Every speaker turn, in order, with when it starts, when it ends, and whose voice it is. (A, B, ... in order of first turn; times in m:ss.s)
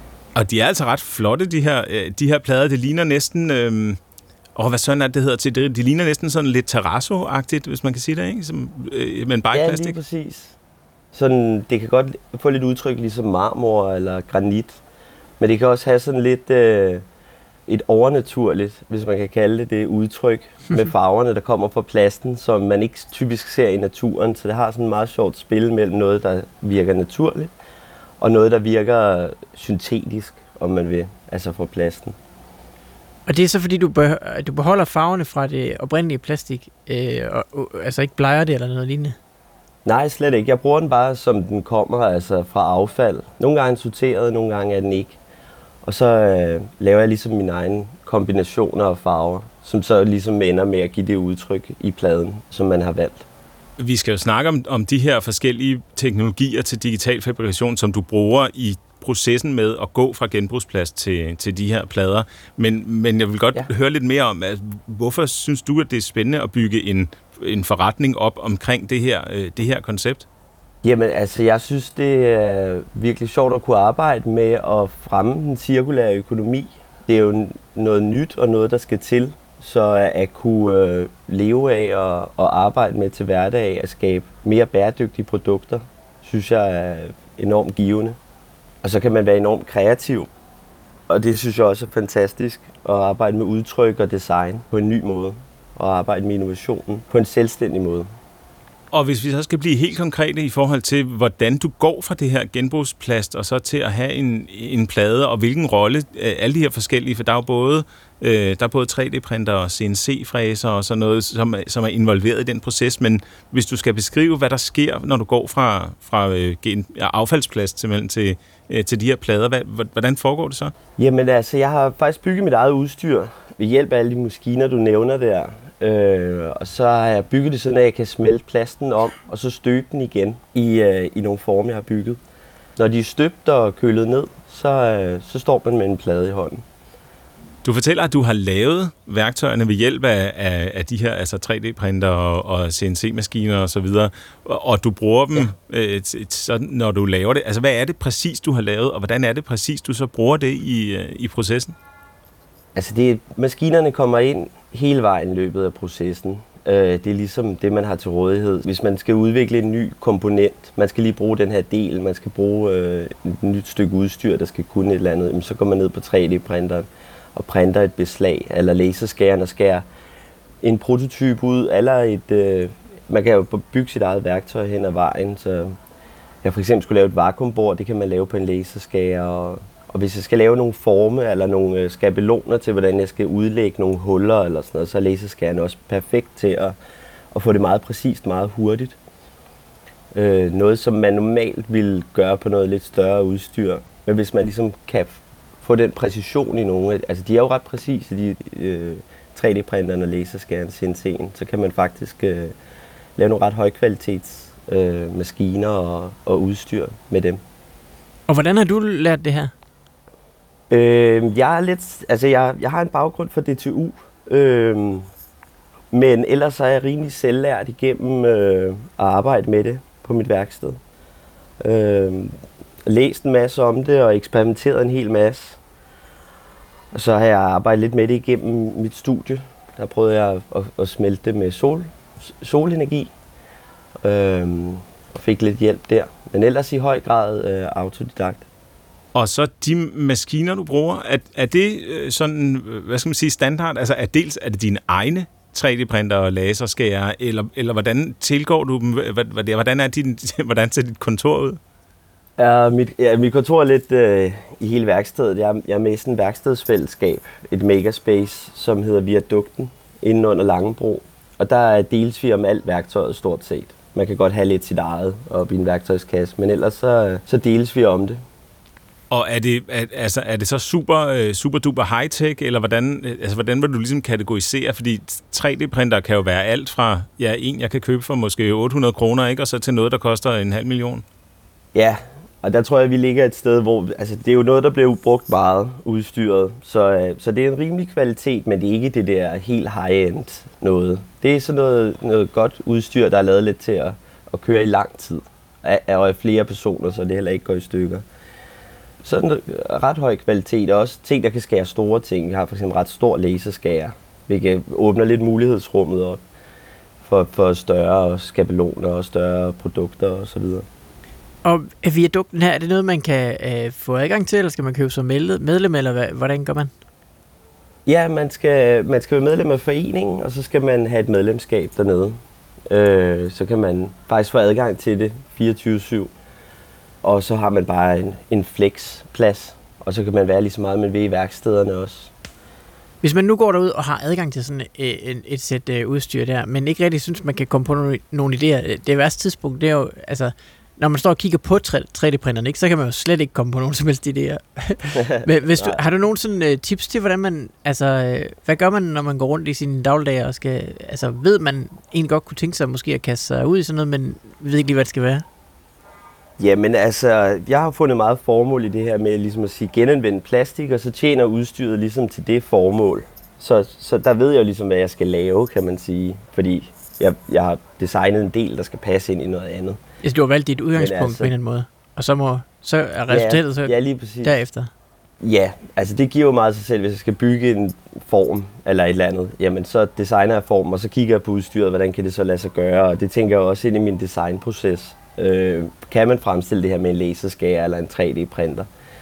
0:00.4-0:04.0 A
0:04.6-0:10.0 A
0:09.5-0:10.5 B
0:11.1-0:14.8 B
0:15.4-0:17.0 B
0:17.7-0:27.5 B
0:28.2-0:32.2 B
0:33.2-0:39.2 C
0:39.8-0:45.2 B
0:45.8-0:53.2 B
0:53.8-1:10.2 A
1:10.8-1:28.2 B
1:28.8-1:30.3 B
1:31.1-1:38.1 B
1:38.9-2:00.7 A
2:01.0-2:12.2 B
2:12.8-2:16.6 B
2:17.6-2:31.8 A
2:32.8-2:49.8 B
2:50.6-2:55.8 B
2:56.4-3:06.8 B
3:07.3-3:09.0 B
3:10.1-3:22.5 B
3:23.2-3:27.4 B
3:28.3-3:29.5 C
3:30.7-3:35.1 B
3:35.9-3:40.8 B
3:41.6-3:45.6 B
3:46.9-3:53.1 B
3:54.0-3:58.4 B
3:59.1-4:11.6 A
4:12.4-4:28.2 B
4:29.1-4:41.0 A
4:41.7-4:58.0 B
4:59.0-5:06.2 B
5:07.0-5:10.6 B
5:11.4-5:16.7 C
5:17.9-5:26.1 B
5:27.0-5:32.1 B
5:33.0-5:55.2 C
5:45.0-5:45.8 B
5:56.4-6:09.8 B
6:10.0-6:14.7 C
6:10.8-6:11.3 B
6:13.1-6:14.3 B
6:15.2-6:28.7 B